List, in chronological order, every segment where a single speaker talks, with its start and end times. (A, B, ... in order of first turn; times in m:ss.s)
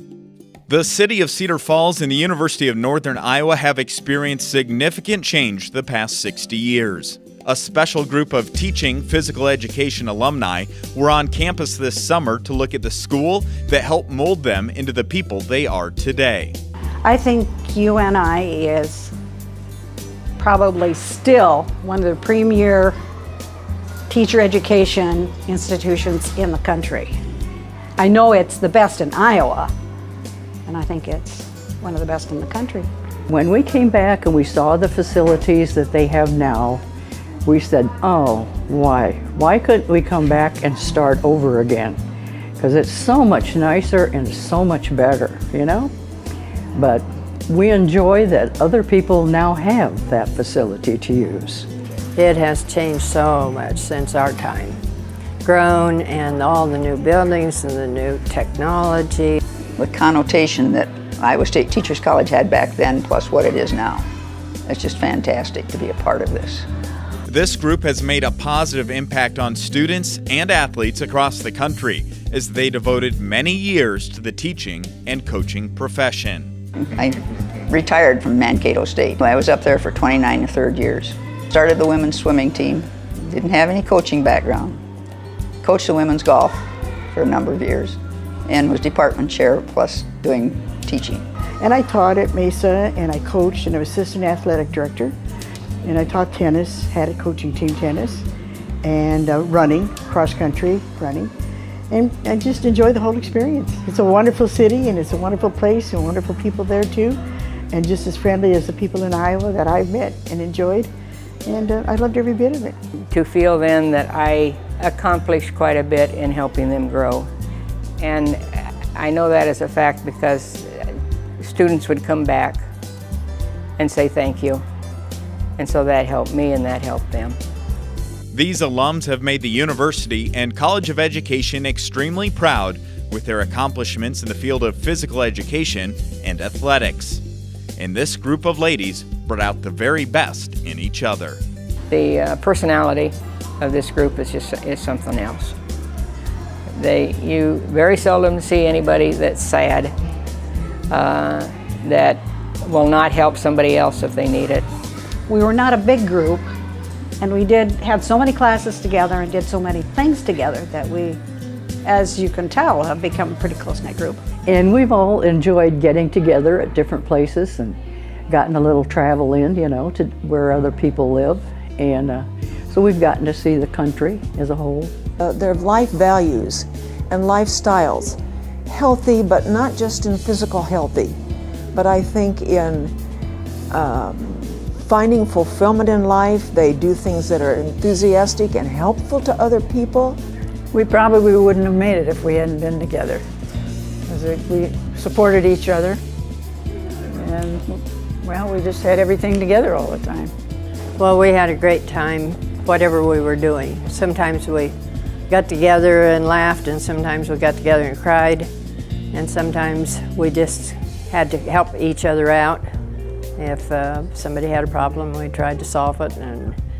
0:00.7-0:16.6 A
0:17.0-0:19.1 B
0:20.4-0:22.9 B
0:24.1-0:27.1 B
0:28.0-0:29.7 B
0:30.6-0:32.9 B
0:33.3-0:36.8 C
0:37.4-0:42.0 C
0:42.6-0:45.9 C
0:46.8-0:51.7 C
0:52.1-0:54.8 D
0:55.4-0:59.4 D
0:59.8-1:04.0 E
1:04.7-1:06.6 E
1:07.3-1:16.5 A
1:16.8-1:24.8 E
1:25.6-1:31.2 E
1:31.6-1:35.1 F
1:35.8-1:38.2 F
1:38.8-1:41.3 F
1:41.9-1:47.2 F
1:47.7-1:50.9 F
1:51.4-1:52.8 F
1:53.1-1:57.3 G
1:58.0-2:00.9 G
2:01.4-2:02.6 G
2:03.8-2:04.6 G
2:05.6-2:07.4 G
2:08.3-2:17.2 A
2:17.8-2:21.4 A
2:21.9-2:25.5 G
2:26.7-2:29.9 G
2:30.9-2:34.6 G
2:35.3-2:36.4 B
2:37.2-2:41.2 B
2:41.8-2:44.2 B
2:44.5-2:47.8 C
2:48.3-2:54.9 C
2:55.2-3:01.2 H
3:01.7-3:02.9 H
3:03.7-3:10.2 H
3:10.7-3:13.2 I
3:14.1-3:16.0 I
3:17.2-3:20.3 I
3:21.0-3:24.7 D
3:25.3-3:28.5 D
3:29.1-3:32.7 D
3:33.4-3:36.6 D